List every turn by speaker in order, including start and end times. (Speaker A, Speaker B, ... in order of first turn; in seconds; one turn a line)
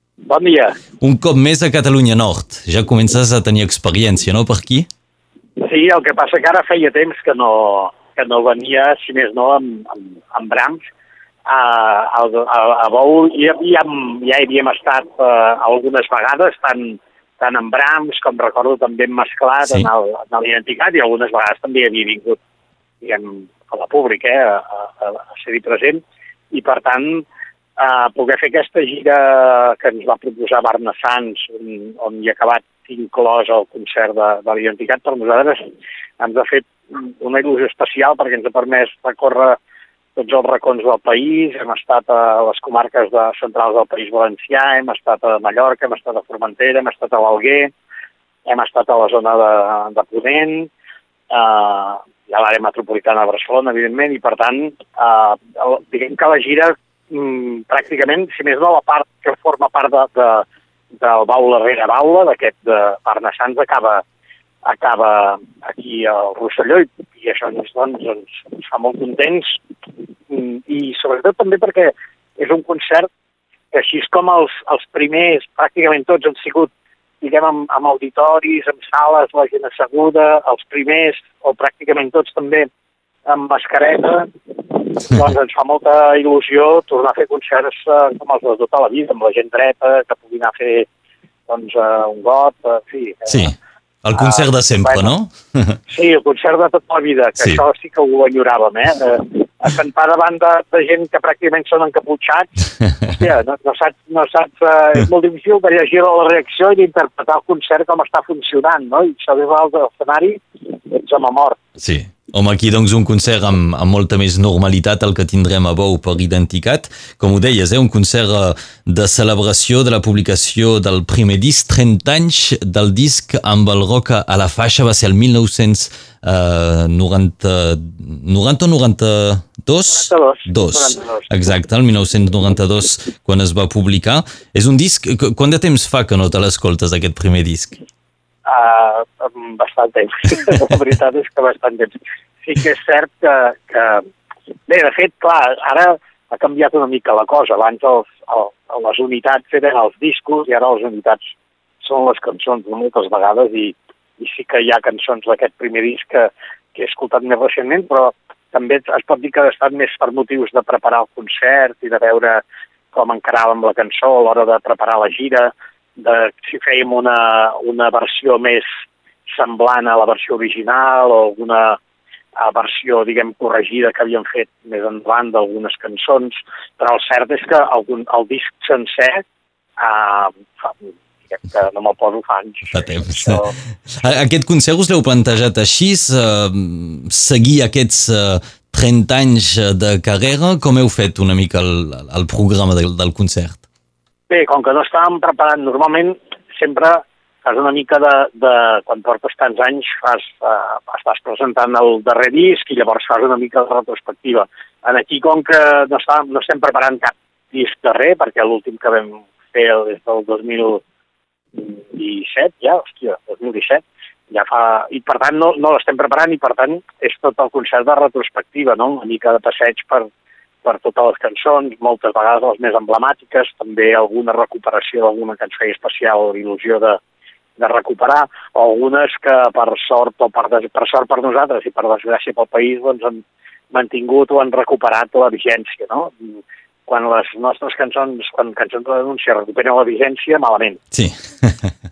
Speaker A: 0.3-0.8
Speaker B: 1.0-4.9
Speaker A: 5.6-10.8
Speaker A: 11.4-22.4
Speaker A: 23.0-27.2
Speaker A: 27.8-39.6
Speaker A: 40.1-47.7
Speaker A: 48.5-50.7
Speaker A: 51.3-60.4
Speaker A: 61.0-64.0
Speaker A: 64.6-69.6
Speaker A: 70.3-73.1
Speaker A: 73.7-76.7
Speaker A: 77.2-82.7
Speaker A: 83.2-90.9
Speaker A: 91.5-93.5
Speaker B: 93.3-95.8
Speaker A: 94.1-95.1
Speaker A: 95.9-102.5
Speaker A: 103.0-111.6
Speaker B: 111.8-137.8
Speaker A: 129.9-131.3
Speaker A: 138.4-144.1
Speaker A: 144.7-151.2
Speaker A: 151.8-168.7
Speaker A: 169.3-171.8
Speaker A: 172.4-179.2
Speaker A: 179.8-183.5
Speaker B: 182.7-193.6
Speaker A: 194.3-210.8
Speaker A: 211.5-220.1
Speaker A: 220.6-227.0
Speaker A: 227.6-240.8
Speaker B: 240.9-241.7